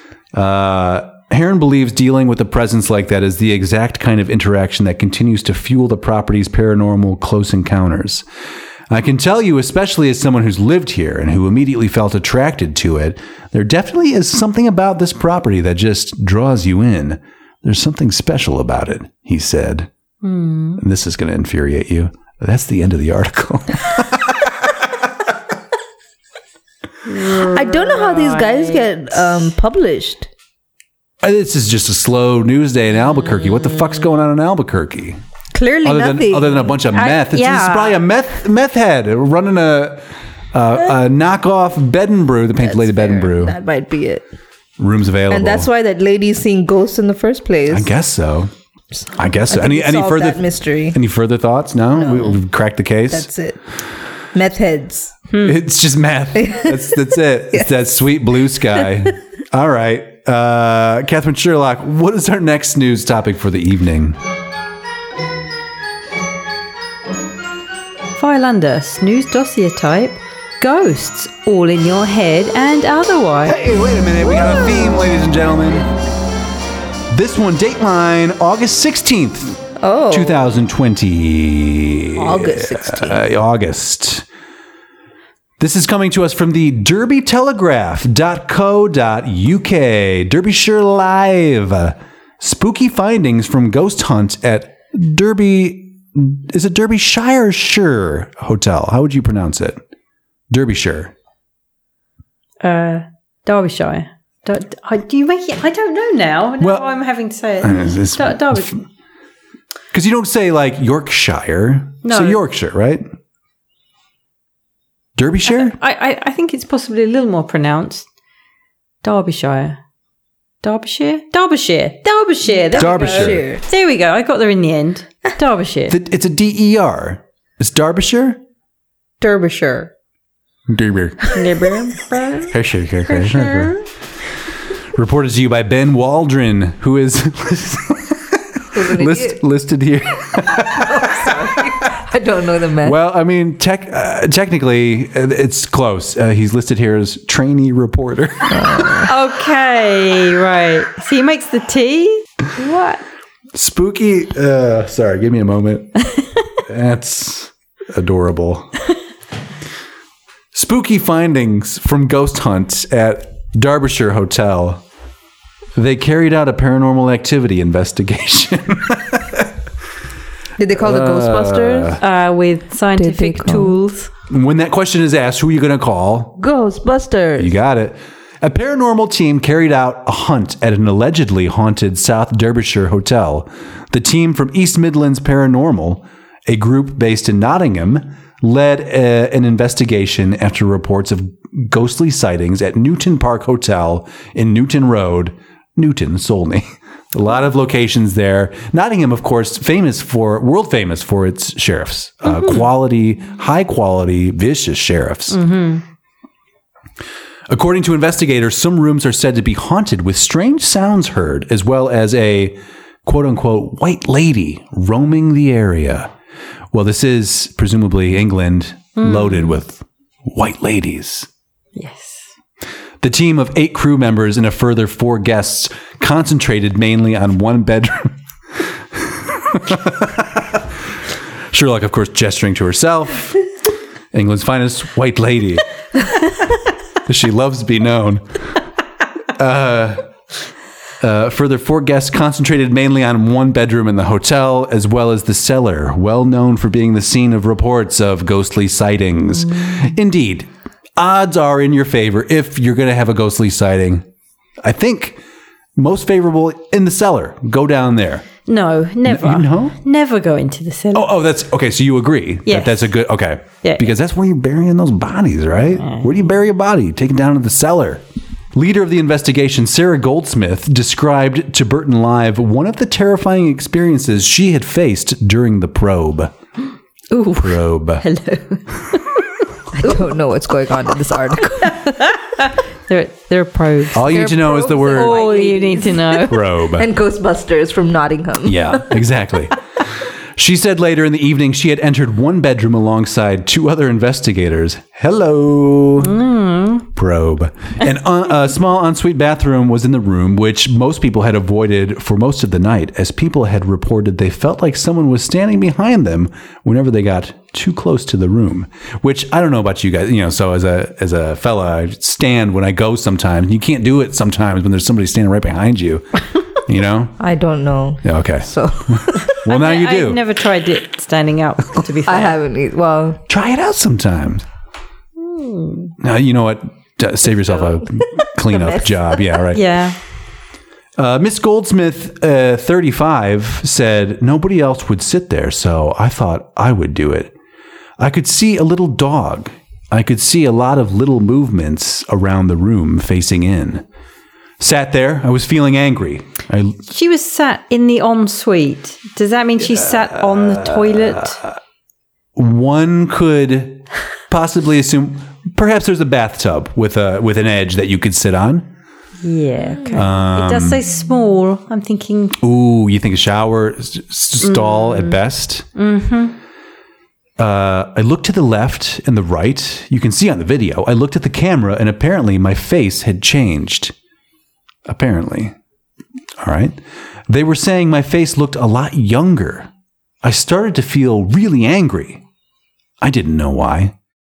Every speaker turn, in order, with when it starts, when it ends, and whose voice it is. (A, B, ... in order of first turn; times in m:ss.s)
0:00.3-0:08.2 A
0:08.9-0:19.9 A
0:20.2-0:20.8 B
0:20.8-0:24.9 A
0:27.1-0:28.9 B
0:27.3-0:30.3 C
0:31.2-0:35.2 A
0:35.5-0:36.8 C
0:35.8-0:43.6 A
0:36.9-0:38.0 B
0:42.6-0:44.2 C
0:44.8-0:45.7 A
0:45.3-0:47.9 C
0:47.7-0:48.5 A
0:49.1-0:53.3 A
0:49.5-0:51.0 C
0:52.0-0:52.4 C
0:53.1-0:53.6 C
0:54.3-0:55.1 C
0:55.4-1:04.2 A
0:56.4-0:56.8 C
1:08.2-1:13.6 B
1:13.4-1:15.9 A
1:17.1-1:24.3 A
1:19.8-1:20.5 C
1:22.2-1:23.3 C
1:25.6-1:39.8 A
1:40.5-1:41.1 A
1:42.6-1:48.8 B
1:46.6-1:46.9 A
1:47.6-1:48.8 A
1:49.9-1:53.0 A
1:52.0-1:52.4 B
1:55.2-1:55.8 A
1:55.5-1:58.1 B
1:59.0-1:59.8 B
2:00.6-2:06.0 B
2:02.5-2:03.6 C
2:02.7-2:03.4 A
2:05.9-2:08.4 A
2:09.2-2:09.9 C
2:10.7-2:11.4 A
2:11.3-2:13.9 B
2:12.5-2:13.8 A
2:14.9-2:21.8 A
2:18.7-2:19.4 C
2:20.8-2:23.0 C
2:22.8-2:29.1 A
2:28.5-2:29.1 C
2:29.1-2:33.0 B
2:33.5-2:36.0 A
2:36.6-2:38.8 A
2:40.5-2:44.8 A
2:45.8-2:49.5 A
2:50.6-2:52.0 C
2:50.7-2:52.0 A
2:52.0-2:54.1 B
2:53.0-2:53.7 C
2:54.3-2:56.4 A
2:56.4-2:57.5 C
2:57.4-3:25.4 A
3:22.3-3:22.7 B
3:25.3-3:25.8 B
3:27.5-3:36.1 A
3:36.7-3:41.3 A
3:39.0-3:39.6 B
3:41.8-3:42.3 B
3:43.0-3:50.8 A
3:51.5-3:53.4 A
3:54.1-3:55.6 A
3:57.0-3:58.3 A
3:59.4-4:00.1 A
4:01.0-4:14.1 A
4:14.6-4:15.2 A
4:15.8-4:18.3 A
4:18.5-4:21.1 B
4:19.0-4:19.8 A
4:20.9-4:36.3 A
4:22.5-4:22.9 B
4:23.6-4:23.9 B
4:25.8-4:26.2 B
4:37.1-4:39.2 B
4:37.4-4:38.0 A
4:39.8-4:42.0 C
4:41.5-4:46.5 B
4:43.9-4:45.2 A
4:44.0-4:48.8 C
4:46.3-4:46.9 A
4:48.4-4:56.2 A
4:56.0-4:56.9 B
4:56.9-5:17.2 A
5:17.2-5:19.3 C
5:18.0-5:20.2 A
5:19.4-5:22.4 B
5:22.1-5:23.2 C
5:23.3-5:24.4 A
5:25.2-5:25.9 B
5:26.0-5:29.6 A
5:28.2-5:28.8 C
5:29.5-5:30.0 B
5:31.0-5:37.3 A
5:38.0-5:43.8 A
5:44.6-5:46.8 A
5:46.9-5:51.4 B
5:49.7-5:51.4 A
5:52.4-5:58.7 A
5:59.2-6:02.4 B
5:59.9-6:00.8 A
6:02.4-6:05.7 A
6:04.5-6:05.2 B
6:05.8-6:06.4 B
6:07.4-6:13.9 A
6:14.8-6:15.6 A
6:16.4-6:19.7 A
6:20.2-6:22.2 A
6:23.0-6:24.0 A